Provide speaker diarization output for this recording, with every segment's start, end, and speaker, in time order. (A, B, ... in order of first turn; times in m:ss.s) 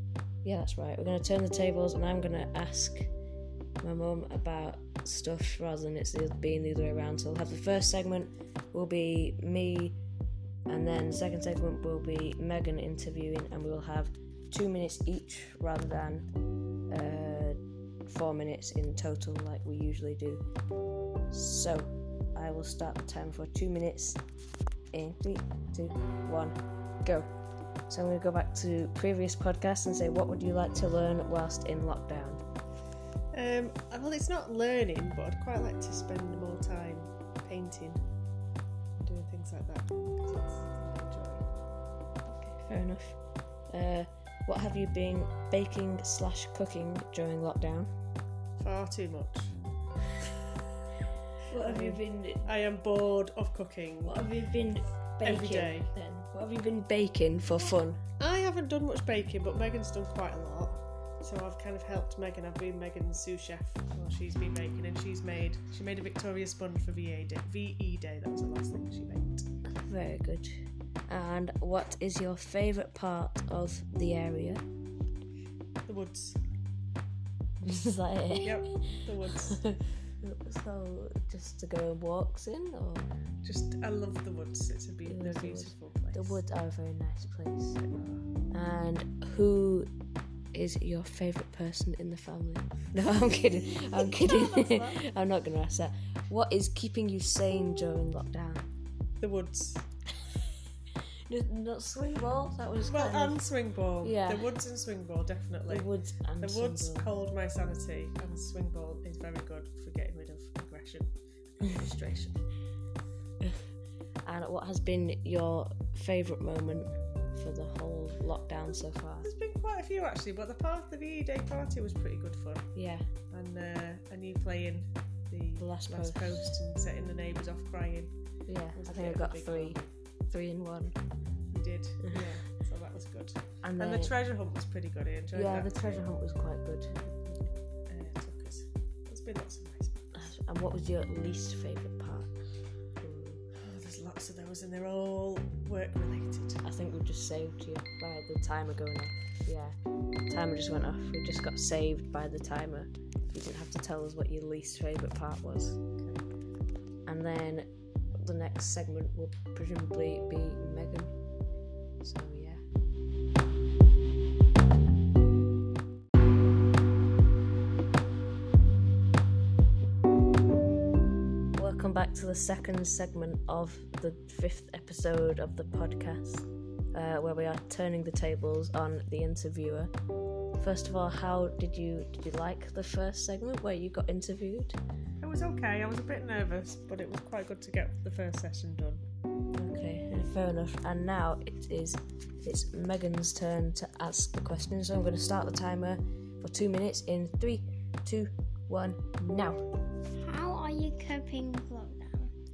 0:00.4-0:03.1 A
0:03.8-0:10.0 A
0:10.7-0:16.3 A
0:16.9-0:20.4 A
0:21.3-0:24.2 A
0:24.9-0:27.3 A
0:27.9-0:32.4 A
0:33.3-0:38.0 B
0:39.0-0:41.4 B
0:42.3-0:43.2 A
0:43.7-0:47.9 A
0:48.6-0:49.5 B
0:51.4-0:52.5 A
0:51.6-0:54.2 B
0:54.0-0:58.0 A
0:55.2-0:55.9 B
0:58.2-1:09.4 B
1:09.8-1:10.5 A
1:11.1-1:14.6 A
1:15.9-1:16.4 B
1:17.6-1:18.6 A
1:18.4-1:19.6 B
1:19.5-1:23.1 A
1:23.4-1:26.4 B
1:25.0-1:27.8 A
1:27.8-1:28.2 B
1:28.5-1:29.9 A
1:30.5-1:38.7 A
1:34.2-1:34.9 B
1:39.2-1:39.8 B
1:41.3-1:43.4 A
1:42.9-1:45.9 B
1:44.0-1:44.4 A
1:45.7-1:47.1 A
1:46.4-1:52.4 B
1:54.2-1:59.3 A
1:59.2-2:02.7 B
2:02.7-2:03.0 A
2:03.3-2:08.1 B
2:05.6-2:06.6 A
2:08.4-2:11.0 A
2:08.8-2:09.9 B
2:11.5-2:16.1 B
2:13.6-2:14.1 A
2:15.3-2:16.9 A
2:17.0-2:20.3 B
2:20.1-2:22.3 A
2:23.0-2:23.4 A
2:23.6-2:26.6 B
2:26.6-2:29.8 A
2:30.3-2:35.8 A
2:36.0-2:36.2 B
2:37.0-2:37.7 A
2:38.2-2:41.1 A
2:42.0-2:42.6 A
2:51.6-2:59.9 A
3:00.6-3:04.8 A
3:05.2-3:09.0 B
3:09.5-3:19.6 A
3:20.2-3:22.3 C